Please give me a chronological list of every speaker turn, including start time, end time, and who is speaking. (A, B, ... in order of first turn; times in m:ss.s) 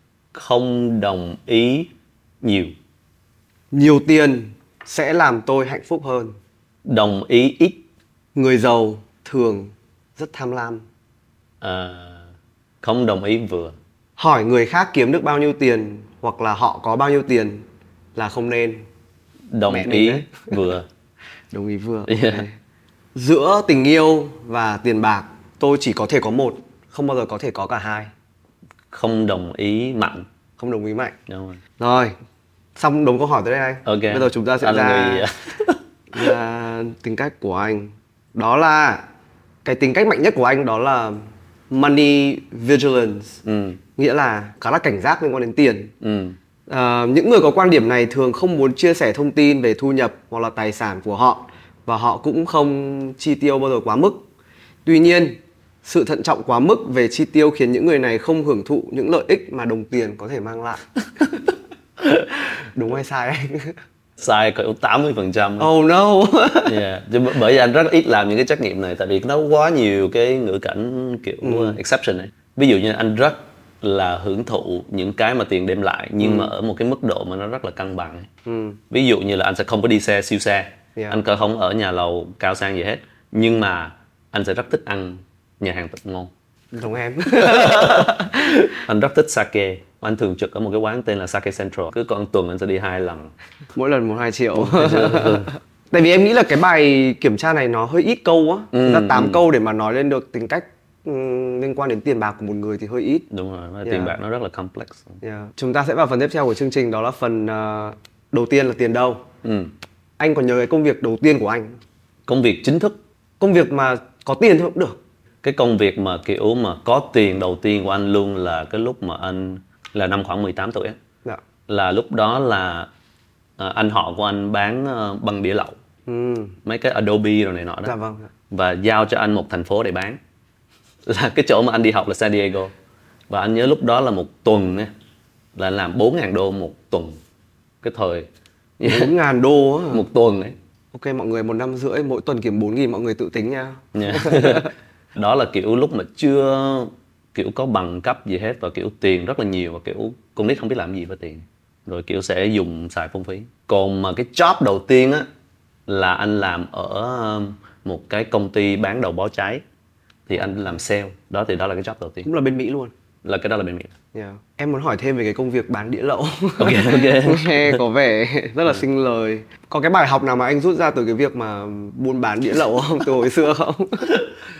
0:00.3-0:02.8 A
0:03.7-0:06.3 B
0:06.9-0:07.8 A
0:08.4-0:10.9 B
0:11.6-0:12.3 A
0:12.8-0:13.8 A
0:14.2-0:18.9 B
0:19.5-0:20.9 A
0:19.7-0:20.5 B
0:21.5-0:22.6 B
0:22.1-0:22.4 A
0:23.2-0:28.1 B
0:28.9-0:30.3 A
0:30.6-0:31.2 B
0:31.3-0:31.6 A
0:31.8-0:32.2 B
0:32.8-0:35.3 B
0:33.8-0:36.3 A
0:36.1-0:39.0 B
0:39.6-0:43.4 B
0:43.4-0:43.8 A
0:44.0-0:45.9 B
0:46.0-0:46.4 A
0:46.7-0:54.2 B
0:54.9-1:00.9 B
1:02.7-1:03.8 B
1:04.2-1:05.7 A
1:05.6-1:06.8 B
1:06.7-1:18.3 A
1:11.4-1:11.8 B
1:16.2-1:16.5 B
1:18.5-1:18.8 B
1:18.9-1:26.3 A
1:26.7-1:28.6 B
1:27.4-1:33.3 A
1:33.8-1:43.3 B
1:34.5-1:35.5 A
1:38.7-1:39.4 A
1:43.3-1:45.2 A
1:43.8-1:44.1 B
1:45.2-1:49.3 B
1:49.4-1:49.7 A
1:50.2-1:51.8 B
1:52.3-1:53.0 A
1:53.4-1:55.0 B
1:55.4-2:01.0 A
2:01.7-2:02.9 A
2:03.6-2:05.8 A
2:06.1-2:06.6 B
2:06.6-2:08.0 A
2:07.8-2:08.3 B
2:08.5-2:10.2 A
2:11.1-2:12.7 A
2:13.3-2:14.9 A
2:15.6-2:17.2 A
2:17.8-2:18.3 A
2:18.8-2:19.1 A
2:18.8-2:20.0 B
2:19.9-2:20.6 A
2:20.9-2:24.7 B
2:24.0-2:35.3 A
2:35.9-2:39.6 A
2:40.3-2:42.3 A
2:42.2-2:42.9 B
2:43.2-2:43.9 A
2:44.1-2:54.2 B
2:46.6-2:47.8 A